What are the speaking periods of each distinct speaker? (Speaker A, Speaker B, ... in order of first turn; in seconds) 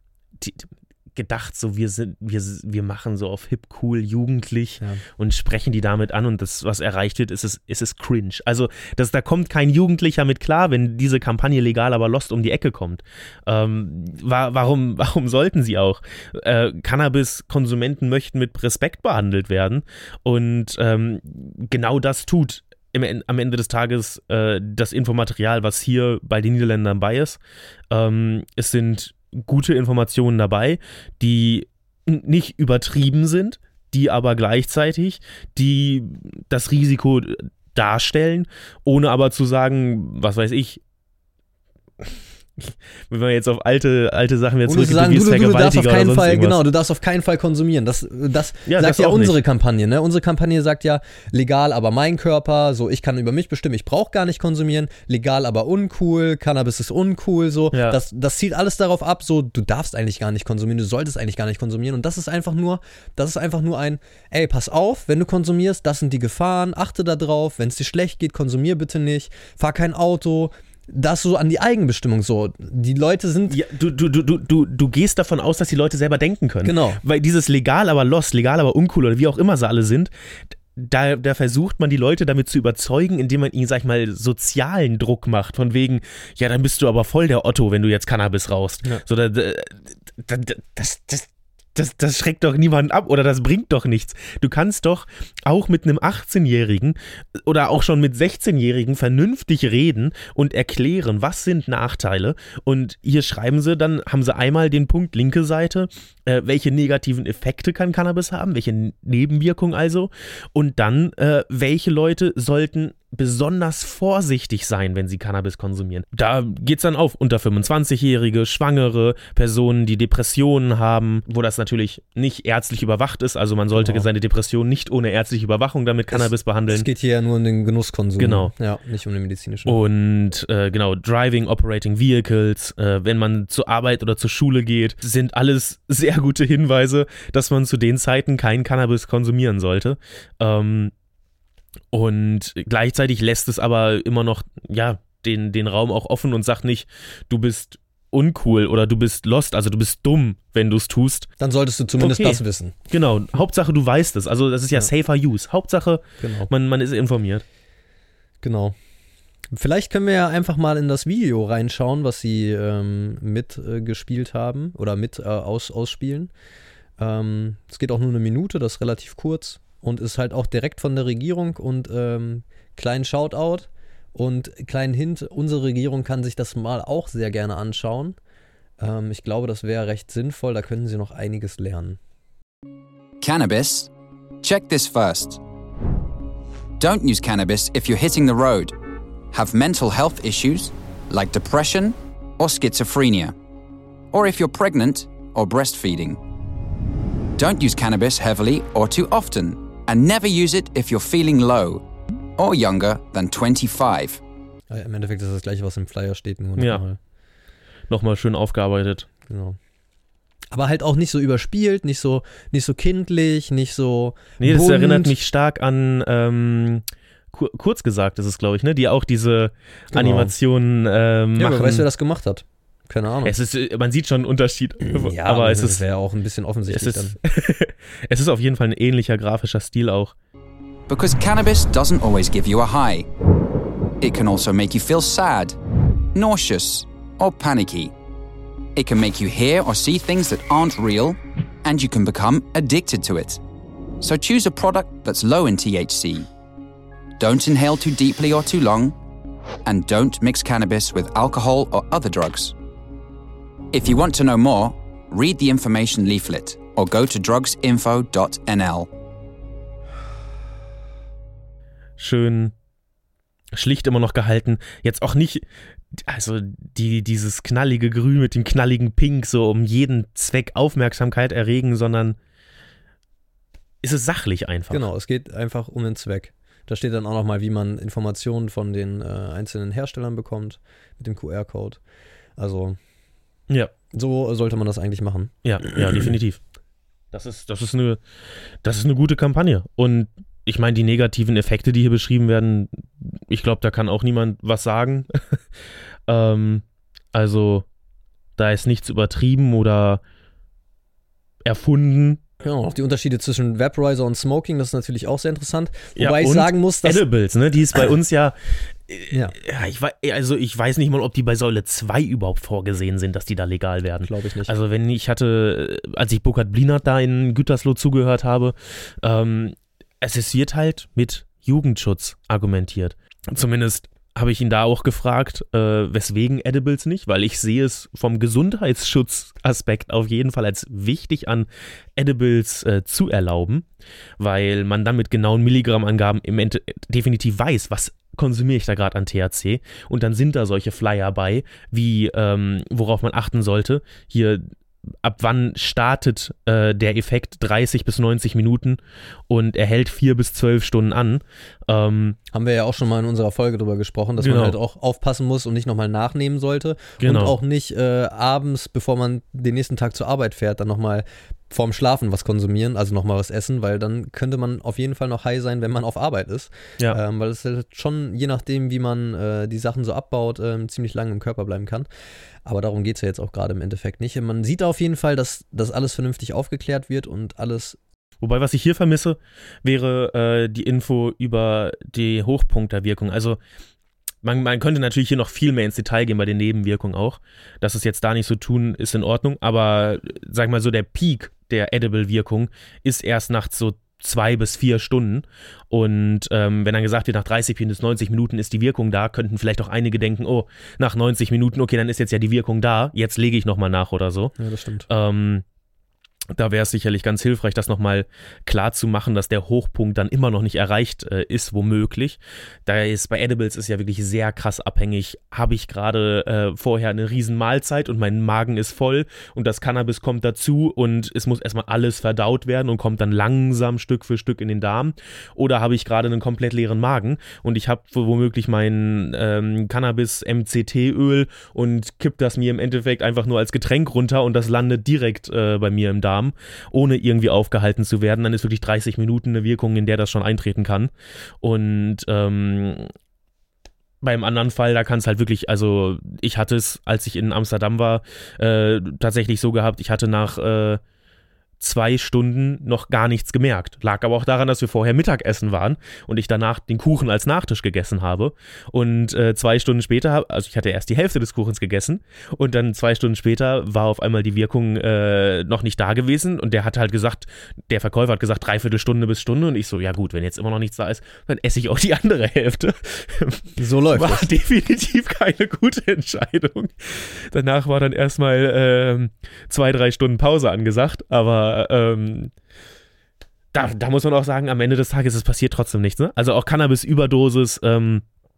Speaker A: 0.4-27.4, 27.9-40.8, 42.0-46.6, 48.7-49.3, 57.7-58.0, 73.5-80.1, 80.7-126.8, 128.2-128.5, 129.7-140.9, 141.9-151.3, 152.0-157.4, 207.9-209.1, 214.4-221.8, 223.2-225.8, 226.7-230.1, 262.0-262.5, 263.5-272.2, 273.8-274.9, 285.4-286.4, 287.1-288.0, 288.6-295.4, 296.1-297.6, 298.4-300.0, 301.4-302.2, 306.0-333.6, 334.2-344.4, 345.0-352.2, 354.2-354.6, 357.0-357.4, 378.2-383.4, 384.2-404.3, 404.9-405.4, 406.3-442.9, 444.0-450.8, 451.6-482.3, 483.5-488.0
Speaker B: 44.7-73.6, 76.6-77.0, 123.7-124.1, 126.1-129.8, 151.4-152.7, 156.2-156.5, 158.4-158.7, 159.5-166.3, 167.0-178.2, 178.8-182.0, 204.7-207.0, 209.3-209.6, 210.5-215.1, 219.9-220.3, 221.4-223.3, 224.8-227.2, 274.7-281.8, 282.4-282.8, 283.9-286.1, 302.4-307.0, 309.1-309.4, 314.0-314.5, 352.3-371.9, 372.4-377.8, 404.4-404.9, 473.6-474.3
Speaker C: 183.2-183.9, 184.4-185.4, 186.8-188.7, 189.3-193.3, 194.1-196.2, 197.4-201.8, 202.4-204.2, 230.9-233.1, 234.0-235.6, 236.1-237.9, 238.8-243.4, 244.0-246.3, 247.2-248.9, 249.6-252.5, 253.7-258.9